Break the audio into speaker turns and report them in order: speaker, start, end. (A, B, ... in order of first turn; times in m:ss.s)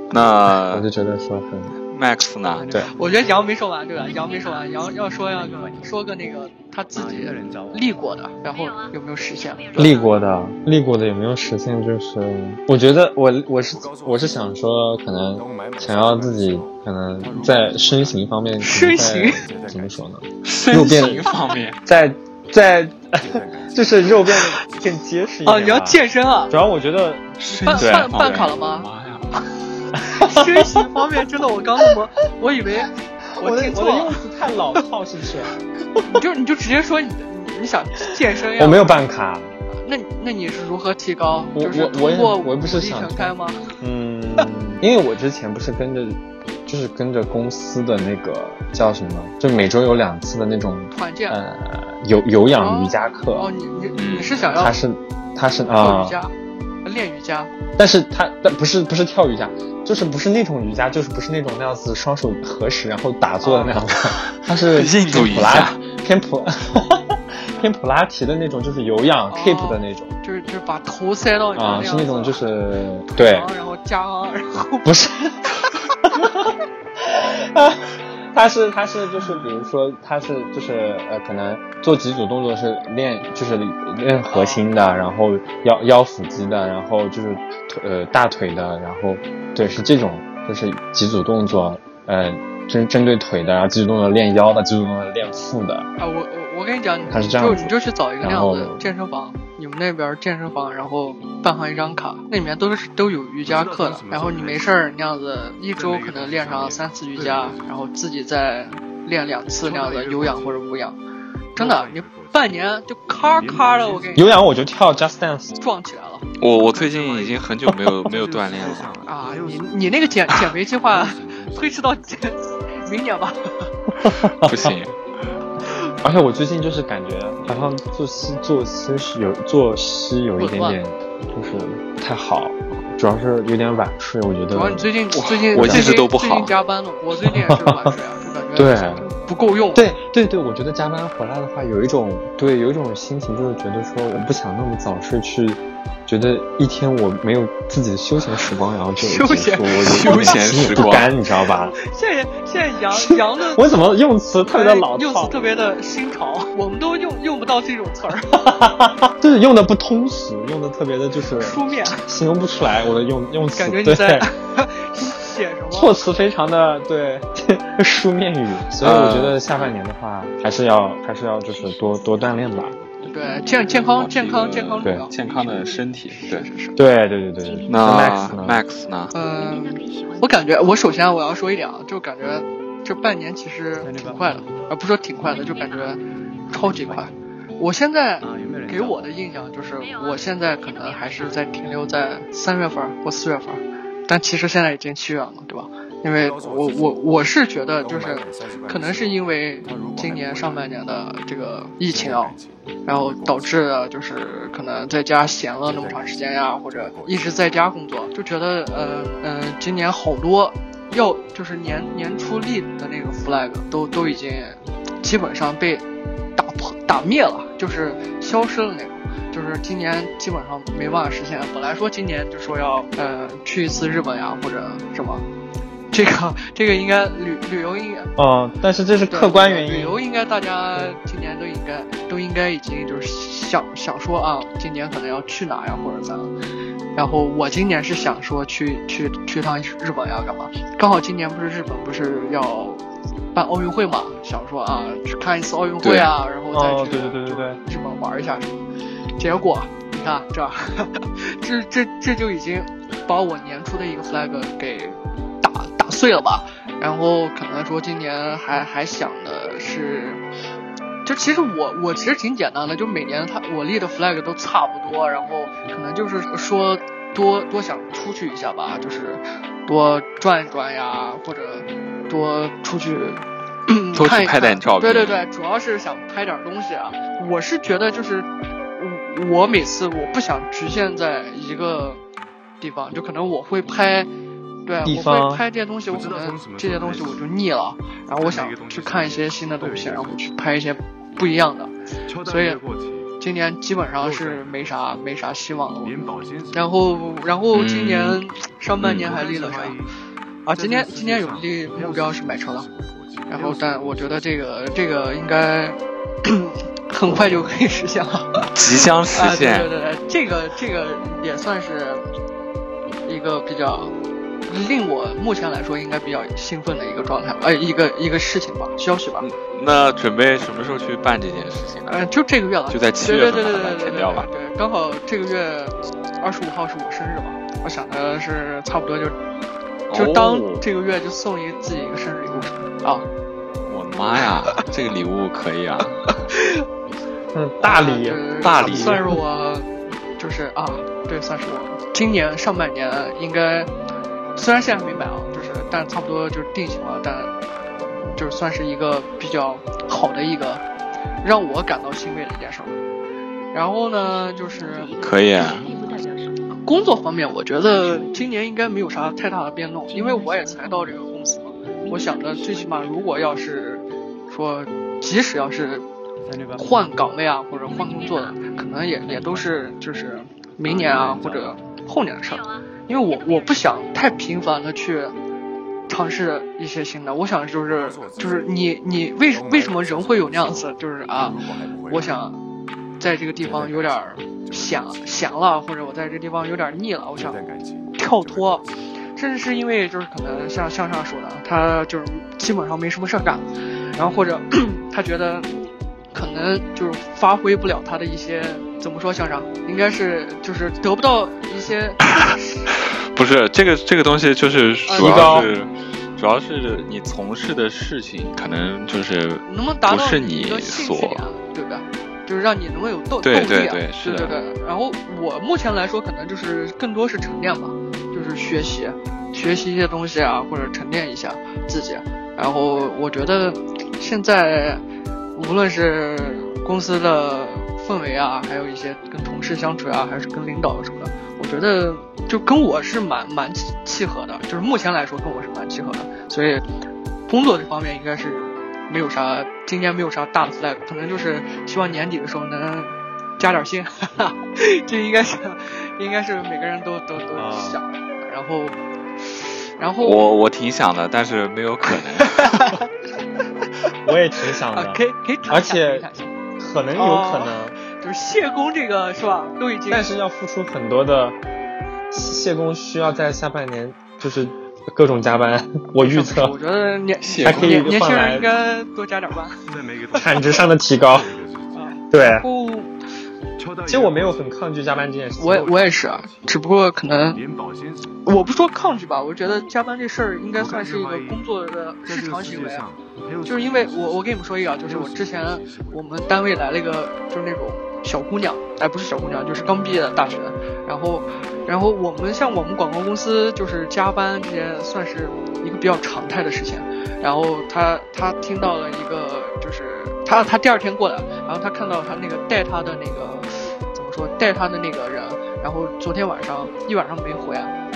0:00.1-0:00.9 A
0:00.6-0:01.8 B
0:01.9-0:02.8 A
0:02.9-0:10.0 C
0:04.2-0:04.9 D
0:09.8-0:21.3 B
0:13.6-0:14.6 E
0:15.3-0:20.1 E
0:18.6-0:19.4 C
0:20.4-0:21.8 A
0:21.8-0:28.5 B
0:23.2-0:25.0 E
0:25.4-0:26.5 C
0:27.4-0:29.3 A
0:27.5-0:28.9 C
0:30.0-0:30.8 B
0:30.0-0:34.2 C
0:33.4-0:36.0 B
0:36.1-0:38.9 C
0:38.6-0:39.6 B
0:39.7-0:43.6 C
0:41.6-0:53.5 B
0:50.9-0:51.4 C
0:52.6-0:54.8 C
0:54.0-0:54.4 A
0:54.5-0:56.2 B
0:55.7-0:56.3 C
0:56.8-0:57.5 C
0:57.8-1:10.1 B
1:03.4-1:03.8 C
1:04.3-1:05.8 A
1:09.3-1:12.4 C
1:11.6-1:13.5 B
1:13.1-1:15.0 C
1:14.8-1:15.4 B
1:16.1-1:35.9 B
1:24.3-1:24.6 C
1:36.0-1:51.0 C
1:37.1-1:38.9 B
1:43.5-1:44.8 E
1:45.7-1:47.8 E
1:49.6-1:50.6 E
1:51.6-1:52.6 E
1:51.6-1:54.4 C
1:53.4-1:54.3 E
1:54.2-1:55.6 B
1:55.6-1:56.3 C
1:56.4-1:59.0 A
1:57.0-1:57.3 E
1:58.0-2:02.2 E
1:59.0-2:03.7 C
2:04.0-2:04.8 B
2:04.4-2:04.9 A
2:06.0-2:14.9 B
2:10.4-2:10.8 C
2:14.5-2:19.9 C
2:15.1-2:16.6 A
2:15.5-2:16.0 B
2:17.2-2:17.9 B
2:18.6-2:19.1 B
2:19.8-2:31.8 B
2:29.0-2:30.4 C
2:29.7-2:31.1 A
2:31.8-2:33.6 C
2:32.9-2:35.4 B
2:34.5-2:38.4 C
2:38.3-2:44.3 B
2:41.4-2:42.0 C
2:43.6-2:45.9 C
2:45.7-2:52.8 B
2:48.8-2:49.7 A
2:51.5-2:54.1 D
2:53.0-2:56.8 C
2:53.9-2:56.5 A
2:55.5-2:55.8 D
2:56.8-2:58.6 B
2:57.4-2:58.6 D
2:57.7-2:59.1 A
2:59.1-3:35.8 C
2:59.1-3:01.2 D
3:16.2-3:20.7 E
3:21.8-3:23.7 E
3:25.6-3:27.6 E
3:36.4-3:45.2 C
3:45.9-3:48.1 C
3:48.2-3:50.0 B
3:49.1-3:56.3 C
3:57.0-4:08.6 C
4:05.8-4:06.1 A
4:06.5-4:07.6 B
4:09.2-4:20.2 C
4:21.0-4:42.0 C
4:33.9-4:35.2 A
4:42.6-4:44.1 C
4:44.7-4:51.7 C
4:44.8-4:45.4 B
4:45.9-4:47.3 E
4:48.1-4:50.3 E
4:52.1-4:53.2 E
4:52.2-4:52.6 C
4:53.2-4:56.0 C
4:54.0-4:55.2 E
4:55.8-4:57.4 E
4:56.5-4:59.8 C
4:57.5-4:58.2 A
4:58.8-4:59.1 A
4:58.8-4:59.9 E
5:00.4-5:02.7 C
5:00.5-5:05.2 E
5:03.3-5:08.5 C
5:08.5-5:09.7 A
5:09.1-5:12.0 C
5:13.1-5:13.9 C
5:14.5-5:19.3 C
5:19.2-5:22.0 A
5:21.9-5:29.2 C
5:22.7-5:24.3 A
5:29.9-5:30.6 A
5:29.9-5:33.1 C
5:33.6-5:36.3 A
5:36.3-5:36.6 C
5:37.3-5:39.1 B
5:37.6-5:43.7 C
5:38.4-5:39.1 A
5:44.4-5:47.3 C
5:48.1-5:50.6 C
5:51.2-5:52.8 C
5:53.5-5:54.9 C
5:53.9-5:56.6 D
5:55.0-5:55.6 A
5:56.6-6:05.8 C
5:57.5-5:58.4 D
5:59.9-6:01.1 D
6:01.7-6:03.7 D
6:06.6-6:15.1 C
6:07.8-6:08.4 D
6:10.6-6:11.5 E
6:15.9-6:22.4 C
6:17.6-6:22.2 E
6:23.0-6:27.4 C
6:23.4-6:25.6 E
6:27.2-6:28.8 E
6:28.0-6:28.6 C
6:29.2-6:35.5 C
6:36.1-6:42.7 C
6:43.2-6:51.3 A
6:44.9-6:45.5 C
6:45.0-6:45.5 B
6:49.5-7:04.8 C
6:53.2-6:54.4 A
7:05.4-7:16.7 C
7:17.3-7:30.3 C
7:27.4-7:27.8 B
7:30.0-7:32.7 A
7:31.9-7:32.9 C
7:33.4-7:33.7 C
7:34.0-7:36.1 B
7:34.7-7:36.3 C
7:36.6-7:37.8 B
7:36.9-7:40.1 C
7:39.9-7:41.4 B
7:42.1-7:46.6 B
7:46.0-7:49.6 C
7:47.2-7:48.0 A
7:47.4-7:48.5 B
7:49.7-7:51.8 E
7:50.1-7:51.3 B
7:51.7-7:52.9 C
7:52.1-7:52.5 B
7:53.6-7:54.8 E
7:53.9-7:55.7 B
7:55.4-7:57.4 C
7:55.4-7:56.5 E
7:57.2-7:58.4 E
7:58.2-8:02.8 C
8:00.6-8:01.5 E
8:02.0-8:06.1 E
8:03.4-8:27.7 C